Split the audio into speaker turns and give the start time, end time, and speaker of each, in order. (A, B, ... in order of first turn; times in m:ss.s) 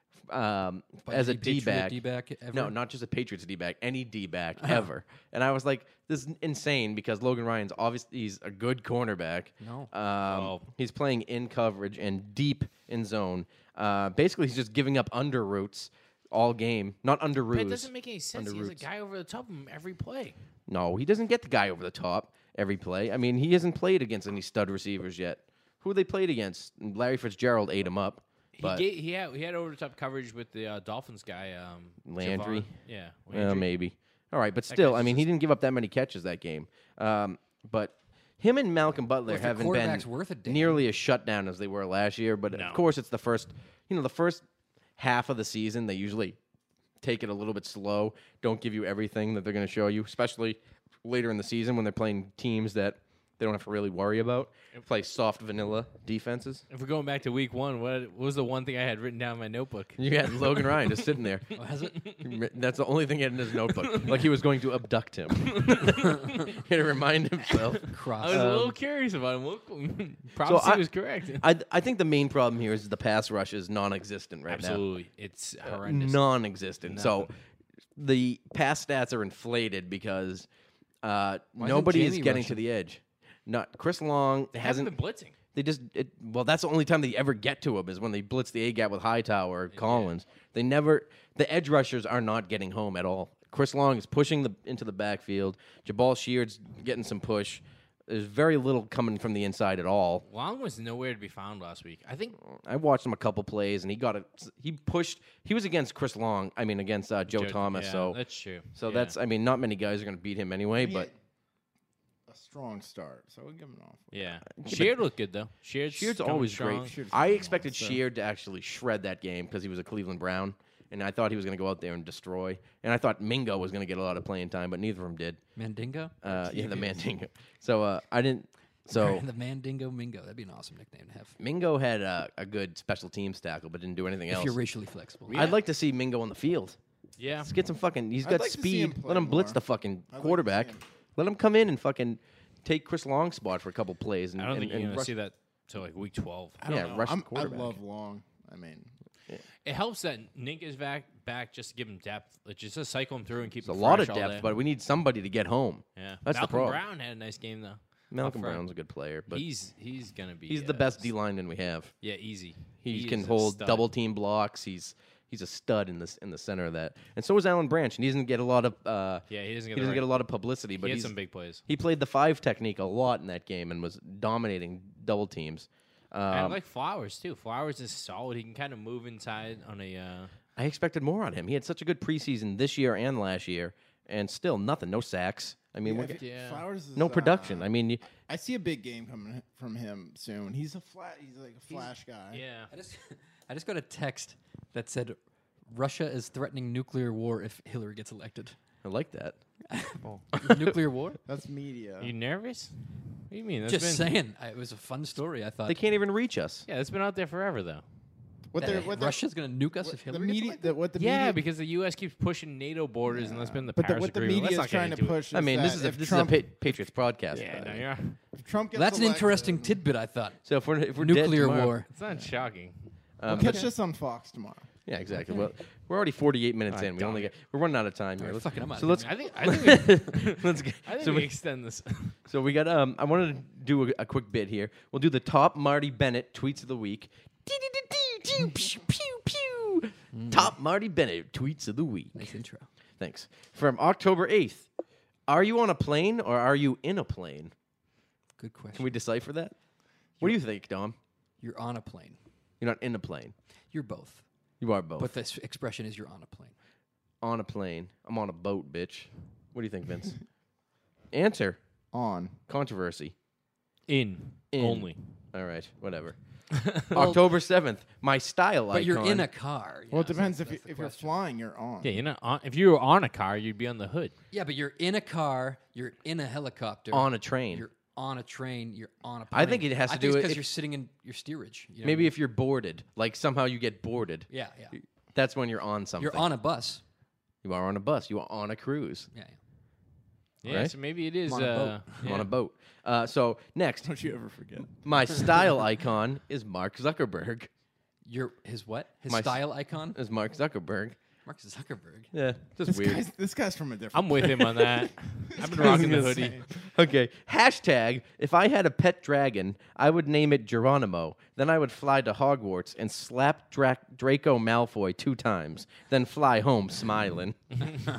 0:00.3-0:02.0 A
0:01.0-0:02.8 B
0:02.5-0:18.9 A
0:09.6-0:09.9 B
0:10.2-0:10.7 C
0:17.5-0:20.4 C
0:20.7-0:28.8 A
0:28.6-0:33.7 C
0:32.1-0:32.8 A
0:33.3-0:44.4 A
0:34.7-0:35.3 C
0:39.3-0:40.8 B
0:42.5-0:42.8 C
0:45.0-0:46.4 A
0:47.0-0:56.6 A
0:56.7-1:00.9 C
1:00.0-1:01.5 A
1:01.6-1:02.0 B
1:02.2-1:06.1 A
1:03.7-1:04.2 C
1:05.4-1:06.5 C
1:06.6-1:08.8 A
1:07.9-1:08.6 B
1:08.2-1:11.4 C
1:10.4-1:14.8 A
1:14.5-1:16.3 C
1:15.6-1:17.3 A
1:16.9-1:17.3 C
1:18.0-1:20.5 A
1:21.0-1:24.9 A
1:21.6-1:22.6 B
1:24.5-1:25.4 C
1:25.5-1:40.2 A
1:29.7-1:30.1 C
1:40.2-1:42.4 C
1:42.5-1:48.2 A
1:47.3-1:49.2 C
1:48.7-1:51.1 A
1:50.8-1:51.1 D
1:52.3-1:54.4 D
1:54.1-1:57.0 C
1:54.6-1:55.0 A
1:55.9-2:05.4 A
1:56.8-1:58.0 D
2:05.6-2:07.0 B
2:06.2-2:09.2 A
2:08.9-2:11.4 B
2:11.4-2:14.6 A
2:14.3-2:15.5 B
2:15.3-2:15.6 C
2:15.3-2:16.8 A
2:17.2-2:17.5 C
2:17.4-2:25.1 A
2:18.2-2:20.8 D
2:24.4-2:26.6 C
2:26.6-2:28.9 D
2:26.7-2:27.8 A
2:29.6-2:34.5 C
2:33.6-2:36.8 A
2:36.0-2:38.6 C
2:38.1-2:39.4 A
2:39.3-2:41.1 C
2:40.5-2:41.9 A
2:42.0-2:43.9 C
2:42.8-2:51.2 A
2:49.3-2:50.1 C
2:50.8-2:51.6 C
2:51.7-2:56.6 A
2:56.3-3:00.3 C
3:00.6-3:06.2 A
3:05.8-3:12.4 D
3:06.2-3:06.6 C
3:07.0-3:08.0 A
3:12.3-3:12.7 C
3:12.7-3:15.2 B
3:15.7-3:18.6 B
3:18.8-3:19.4 A
3:19.7-3:21.2 B
3:20.4-3:20.8 A
3:21.3-3:22.1 D
3:22.0-3:22.8 C
3:23.3-3:24.1 C
3:23.7-3:25.8 B
3:25.7-3:26.6 A
3:26.7-3:27.8 C
3:28.5-3:29.3 D
3:28.6-3:30.8 B
3:29.8-3:31.4 D
3:31.0-3:35.3 C
3:33.1-3:36.6 D
3:35.3-3:37.8 A
3:37.3-3:38.2 C
3:37.4-3:37.7 D
3:38.3-3:39.8 D
3:38.7-3:40.4 B
3:40.4-3:41.8 A
3:41.0-3:41.9 B
3:41.9-3:43.6 C
3:43.2-3:43.7 A
3:43.3-3:44.7 D
3:44.9-3:51.3 A
3:46.7-3:47.4 C
3:48.2-3:49.2 B
3:49.0-3:52.2 C
3:52.3-4:02.2 A
4:00.1-4:00.5 B
4:02.2-4:02.7 B
4:03.0-4:04.7 A
4:05.3-4:07.5 A
4:08.4-4:09.0 B
4:08.8-4:09.6 A
4:10.2-4:11.0 A
4:11.4-4:12.2 B
4:12.6-4:13.3 A
4:13.7-4:14.2 B
4:14.6-4:15.1 A
4:15.0-4:16.5 B
4:17.2-4:20.2 A
4:21.1-4:21.6 A
4:21.9-4:22.4 D
4:22.5-4:23.1 A
4:23.9-4:25.1 C
4:24.5-4:26.2 A
4:26.6-4:27.0 C
4:26.8-4:29.3 A
4:26.9-4:27.2 B
4:28.7-4:31.1 B
4:29.9-4:32.0 D
4:31.8-4:34.2 C
4:34.3-4:42.1 B
4:36.9-4:37.6 A
4:39.3-4:40.5 A
4:41.8-4:44.3 A
4:44.3-4:44.8 B
4:45.1-4:46.3 A
4:46.0-4:46.8 B
4:47.4-4:49.1 A
4:50.4-4:52.3 C
4:50.4-4:50.8 A
4:51.3-4:51.9 B
4:52.0-4:53.9 A
4:53.8-4:55.2 D
4:54.8-4:57.5 A
4:58.0-5:00.0 B
4:59.1-5:01.0 A
5:01.2-5:02.1 B
5:02.1-5:03.0 A
5:02.7-5:06.4 D
5:03.9-5:06.4 C
5:05.6-5:06.1 A
5:06.7-5:17.4 A